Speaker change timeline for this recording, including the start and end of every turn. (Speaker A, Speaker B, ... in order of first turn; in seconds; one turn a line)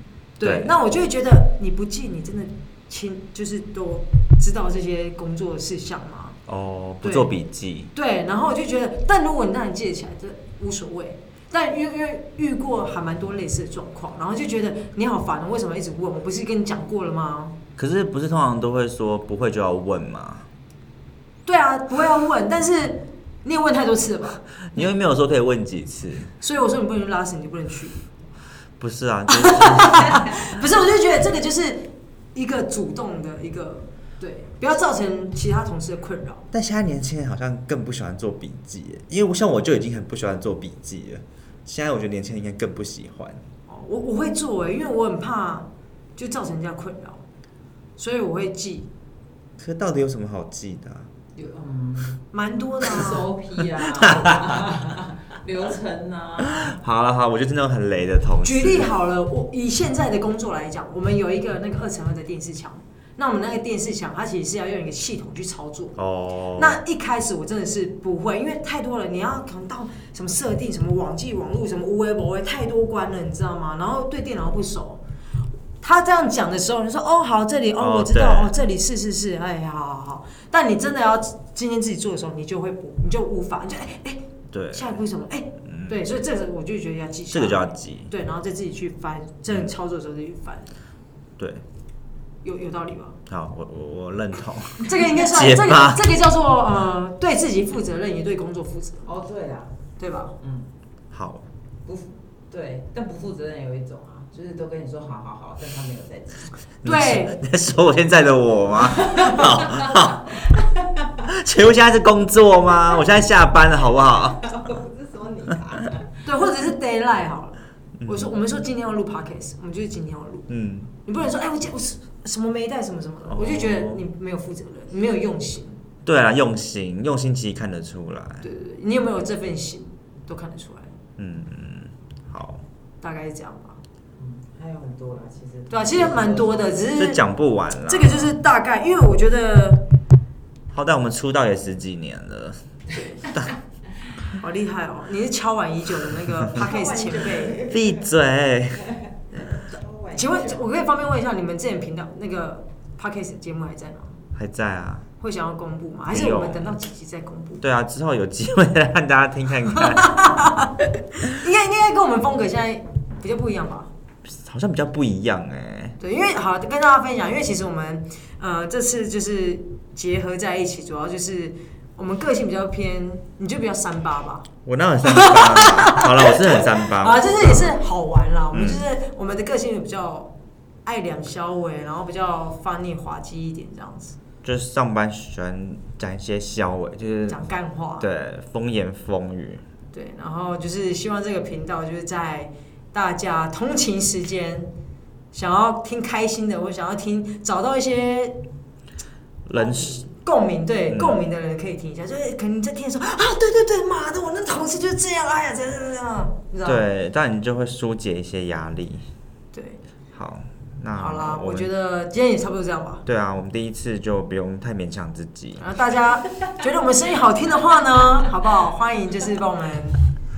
Speaker A: 0.4-6.4
Speaker B: 0.4-0.7
Speaker B: 6.5-7.9
Speaker A: 7.0-7.3
Speaker A: 7.9-17.6
Speaker B: 17.8-20.5
Speaker A: 21.4-24.4
Speaker B: 24.7-26.3
Speaker A: 26.4-28.1
Speaker B: 28.8-30.6
Speaker A: 29.3-36.4
Speaker B: 36.5-43.4
Speaker A: 43.7-47.2
Speaker A: 48.0-48.9
Speaker B: 49.6-51.1
Speaker C: 51.3-52.2
Speaker A: 52.3-53.3
Speaker C: 52.8-56.8
Speaker B: 54.0-54.4
Speaker B: 56.4-58.9
Speaker A: 58.4-66.0
Speaker B: 66.0-66.8
Speaker A: 66.5-75.0
Speaker A: 75.8-84.2
Speaker B: 77.8-78.5
Speaker B: 84.5-85.0
Speaker A: 84.7-90.7
Speaker B: 85.7-86.0
Speaker B: 87.3-88.1
Speaker B: 91.4-91.6
Speaker A: 92.4-93.2
Speaker B: 93.3-96.0
Speaker A: 94.8-99.1
Speaker C: 99.0-99.7
Speaker A: 100.0-100.3
Speaker C: 100.4-100.7
Speaker B: 101.1-101.4
Speaker C: 101.8-106.5
Speaker B: 106.8-110.3
Speaker A: 106.8-107.4
Speaker C: 108.9-111.2
Speaker B: 111.2-114.6
Speaker C: 114.1-116.1
Speaker A: 116.2-120.5
Speaker B: 118.0-118.3
Speaker B: 120.5-120.9
Speaker A: 121.0-125.8
Speaker B: 123.3-124.0
Speaker B: 126.0-128.4
Speaker A: 128.4-130.9
Speaker B: 131.2-132.6
Speaker A: 133.0-133.8
Speaker C: 134.1-136.8
Speaker A: 135.7-137.2
Speaker B: 137.0-138.3
Speaker A: 137.9-139.8
Speaker B: 140.7-142.6
Speaker A: 142.9-143.3
Speaker A: 144.4-147.6
Speaker C: 146.5-148.1
Speaker B: 147.6-148.9
Speaker A: 149.3-154.2
Speaker C: 149.7-150.6
Speaker B: 154.3-155.1
Speaker A: 155.2-157.6
Speaker B: 156.1-156.7
Speaker B: 157.6-160.4
Speaker A: 159.7-163.9
Speaker B: 164.3-166.0
Speaker A: 166.0-174.5
Speaker B: 174.6-177.7
Speaker A: 175.0-180.3
Speaker B: 178.5-178.8
Speaker A: 180.8-184.2
Speaker B: 184.4-187.4
Speaker A: 187.3-188.1
Speaker B: 188.0-189.6
Speaker A: 189.9-194.7
Speaker A: 195.3-198.3
Speaker B: 199.4-200.0
Speaker A: 199.5-206.8
Speaker B: 200.9-201.2
Speaker B: 206.6-209.1
Speaker A: 209.5-209.8
Speaker B: 210.1-211.7
Speaker A: 210.9-213.0
Speaker B: 213.1-215.6
Speaker A: 215.6-220.0